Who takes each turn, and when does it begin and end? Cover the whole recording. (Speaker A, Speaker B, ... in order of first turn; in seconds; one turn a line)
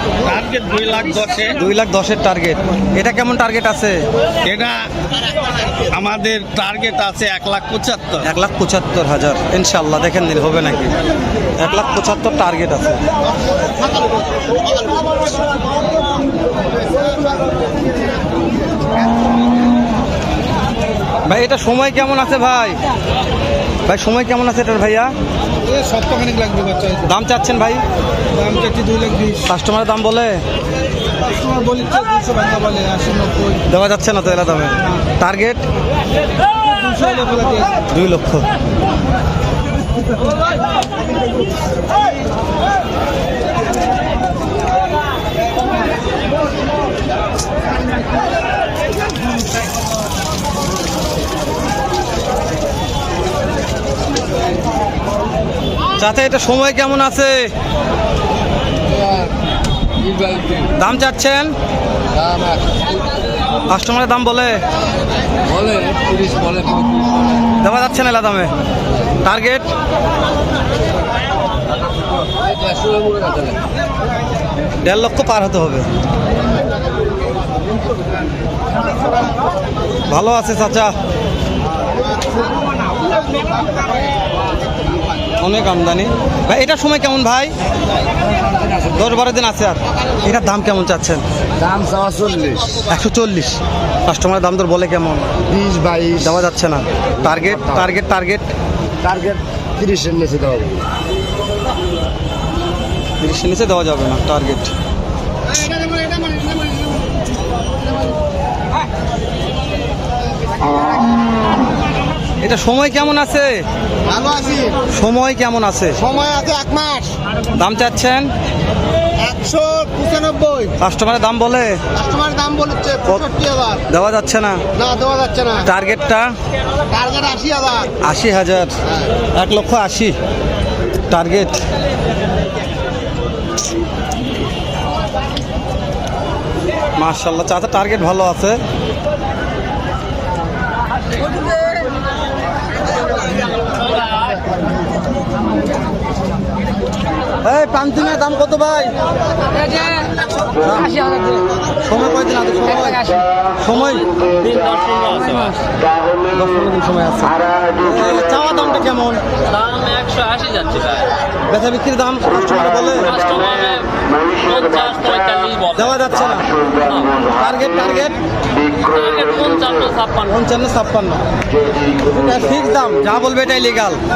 Speaker A: 0.2-1.6
Speaker B: 1.6-4.0
Speaker A: 4.4-4.8
Speaker A: 5.9-8.2
Speaker B: 8.2-10.9
Speaker B: 11.6-13.0
Speaker C: 13.7-15.5
Speaker B: 21.2-22.8
Speaker B: 23.9-25.1
Speaker C: 25.6-27.1
Speaker B: 27.0-27.8
Speaker C: 28.3-29.5
Speaker B: 29.4-30.4
Speaker C: 31.2-33.6
Speaker B: 33.6-35.6
Speaker C: 36.7-37.8
Speaker B: 37.9-38.5
Speaker B: 56.0-57.5
Speaker C: 58.9-59.3
Speaker C: 60.0-60.7
Speaker B: 60.8-61.5
Speaker C: 62.1-62.8
Speaker B: 63.7-64.6
Speaker C: 65.5-67.4
Speaker B: 67.6-68.5
Speaker B: 69.2-69.7
Speaker C: 72.3-73.6
Speaker B: 74.8-75.8
Speaker B: 80.1-80.9
Speaker B: 85.4-87.5
Speaker C: 88.4-89.0
Speaker B: 88.9-91.2
Speaker C: 91.6-92.8
Speaker B: 92.9-95.3
Speaker C: 95.5-96.5
Speaker B: 96.2-98.4
Speaker C: 97.2-97.9
Speaker C: 99.0-100.9
Speaker B: 103.2-104.7
Speaker C: 106.0-106.2
Speaker B: 112.4-113.6
Speaker C: 114.1-114.8
Speaker B: 114.9-116.0
Speaker C: 116.0-117.1
Speaker B: 117.5-118.3
Speaker C: 119.2-120.8
Speaker B: 120.8-121.8
Speaker C: 121.9-123.8
Speaker B: 123.9-124.6
Speaker C: 124.8-125.7
Speaker B: 125.6-126.3
Speaker C: 126.9-127.9
Speaker B: 128.0-128.7
Speaker B: 129.3-130.2
Speaker B: 131.1-131.6
Speaker B: 137.0-138.6
Speaker D: 144.0-144.4
Speaker B: 147.4-148.9
Speaker D: 149.7-150.0
Speaker B: 150.6-151.1
Speaker D: 151.0-151.4
Speaker B: 151.8-154.1
Speaker D: 154.3-155.7
Speaker B: 156.3-159.2
Speaker D: 159.5-161.2
Speaker B: 161.5-163.2
Speaker D: 163.0-167.2
Speaker B: 165.7-166.5
Speaker B: 167.2-168.2
Speaker D: 168.7-170.3
Speaker B: 170.3-171.2
Speaker B: 172.0-174.0